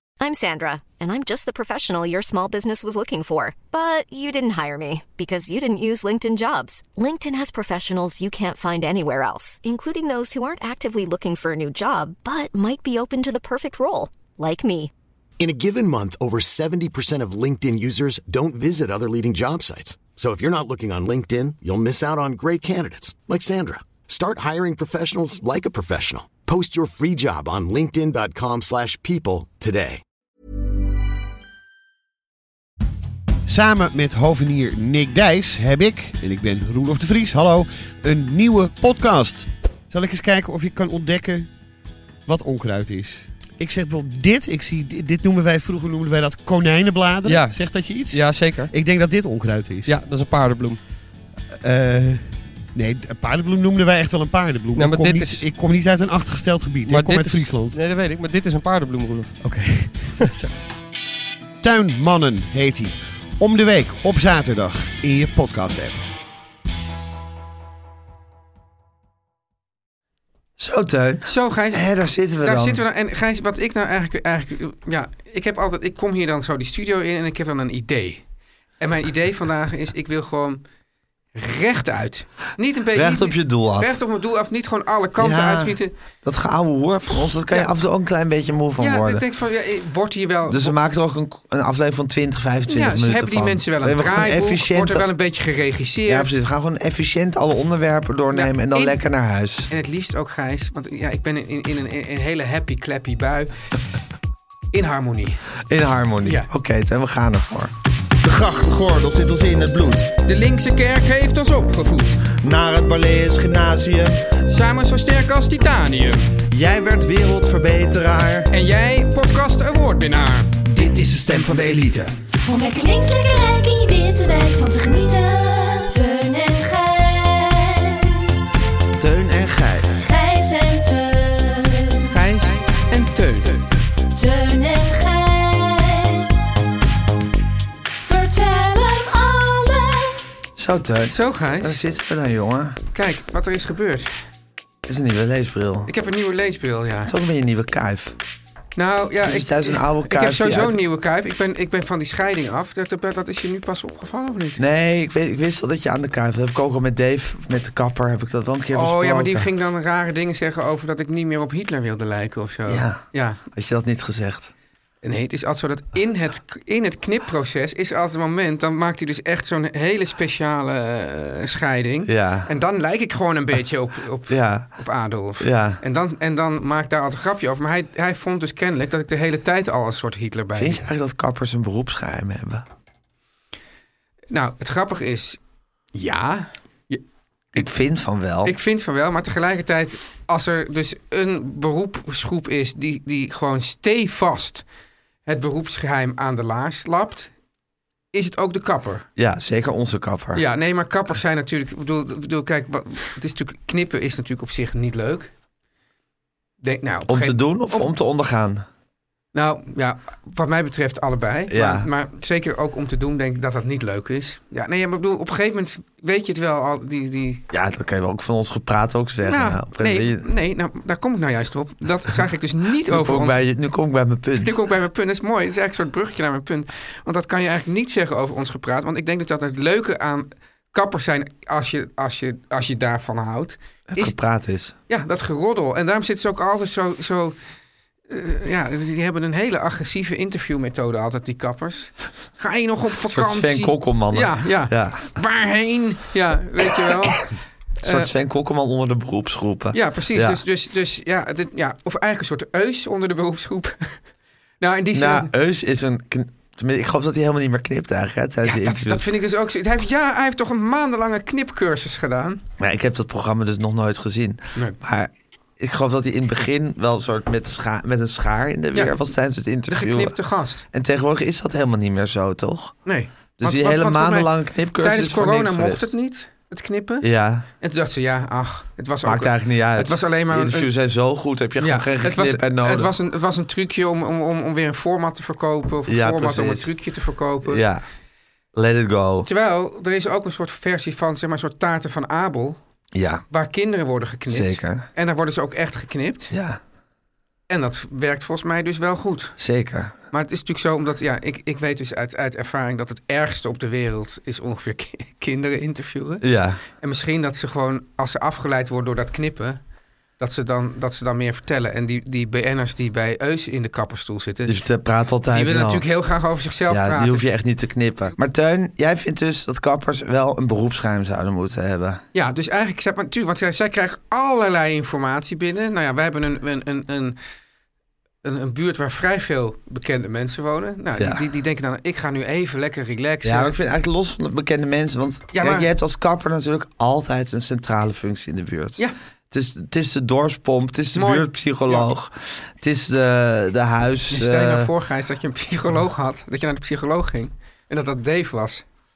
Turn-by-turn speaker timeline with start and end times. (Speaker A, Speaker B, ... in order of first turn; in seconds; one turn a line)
Speaker A: 0.2-14.9
Speaker B: 15.4-30.0
Speaker C: 33.5-41.5
Speaker C: 42.2-50.0
Speaker D: 47.2-48.7
Speaker D: 49.9-50.8
Speaker C: 51.6-57.8
Speaker D: 54.8-55.4
Speaker D: 56.9-59.3
Speaker C: 59.4-60.5
Speaker C: 61.6-66.0
Speaker E: 70.6-72.8
Speaker F: 71.2-71.8
Speaker F: 72.4-78.2
Speaker F: 78.8-80.6
Speaker F: 81.3-85.9
Speaker E: 82.9-84.0
Speaker E: 85.2-89.2
Speaker F: 88.8-90.7
Speaker E: 90.5-95.1
Speaker F: 92.7-96.3
Speaker E: 96.0-99.7
Speaker F: 98.3-99.0
Speaker F: 99.7-103.7
Speaker F: 104.7-105.5
Speaker E: 105.7-110.1
Speaker F: 106.2-106.5
Speaker F: 110.2-112.2
Speaker E: 112.2-114.3
Speaker F: 114.5-116.3
Speaker E: 116.5-118.5
Speaker F: 118.5-122.1
Speaker E: 121.0-121.9
Speaker G: 122.4-128.4
Speaker E: 129.0-130.0
Speaker G: 129.9-132.2
Speaker F: 132.1-133.7
Speaker G: 134.1-136.4
Speaker G: 138.0-140.3
Speaker E: 140.6-142.8
Speaker F: 141.1-141.8
Speaker F: 142.9-144.1
Speaker E: 144.9-145.9
Speaker F: 145.9-147.1
Speaker E: 147.1-148.2
Speaker F: 148.8-154.6
Speaker E: 149.2-150.8
Speaker E: 154.6-159.5
Speaker F: 158.7-163.4
Speaker E: 162.7-164.5
Speaker F: 165.0-180.8
Speaker E: 172.1-172.5
Speaker E: 174.3-174.7
Speaker E: 175.4-175.8
Speaker E: 180.6-182.7
Speaker F: 184.3-185.4
Speaker F: 185.9-187.0
Speaker E: 187.5-188.5
Speaker F: 188.4-194.6
Speaker F: 195.2-197.3
Speaker F: 198.1-199.1
Speaker E: 199.2-200.4
Speaker F: 200.3-205.3
Speaker F: 206.6-207.9
Speaker E: 207.1-208.7
Speaker F: 209.3-217.4
Speaker E: 211.5-211.9
Speaker E: 217.5-220.3
Speaker F: 219.2-223.4
Speaker E: 222.8-224.6
Speaker F: 224.4-234.2
Speaker E: 233.9-234.8
Speaker F: 234.9-237.4
Speaker F: 238.1-247.2
Speaker E: 243.1-245.1
Speaker F: 247.8-248.1
Speaker E: 247.8-250.4
Speaker F: 249.7-254.0
Speaker F: 254.6-255.3
Speaker E: 254.9-259.0
Speaker F: 258.4-262.4
Speaker E: 262.6-270.2
Speaker F: 269.7-270.6
Speaker E: 270.7-272.8
Speaker F: 272.8-277.1
Speaker E: 273.4-275.9
Speaker E: 277.0-277.4
Speaker F: 277.6-280.7
Speaker E: 279.0-282.9
Speaker F: 281.6-287.6
Speaker E: 285.9-286.7
Speaker E: 287.4-287.8
Speaker E: 288.5-289.3
Speaker F: 289.2-292.6
Speaker E: 292.9-293.2
Speaker F: 293.3-296.3
Speaker E: 294.3-294.9
Speaker E: 296.3-296.6
Speaker F: 297.5-299.4
Speaker E: 299.4-299.9
Speaker F: 300.1-306.2
Speaker E: 306.2-306.6
Speaker F: 306.8-309.6
Speaker F: 310.2-314.6
Speaker E: 314.4-315.8
Speaker F: 315.3-317.2
Speaker E: 316.7-322.0
Speaker F: 322.1-327.2
Speaker F: 328.2-333.5
Speaker E: 331.0-331.2
Speaker E: 333.2-344.7
Speaker F: 335.3-335.7
Speaker F: 340.9-341.9
Speaker F: 344.1-348.6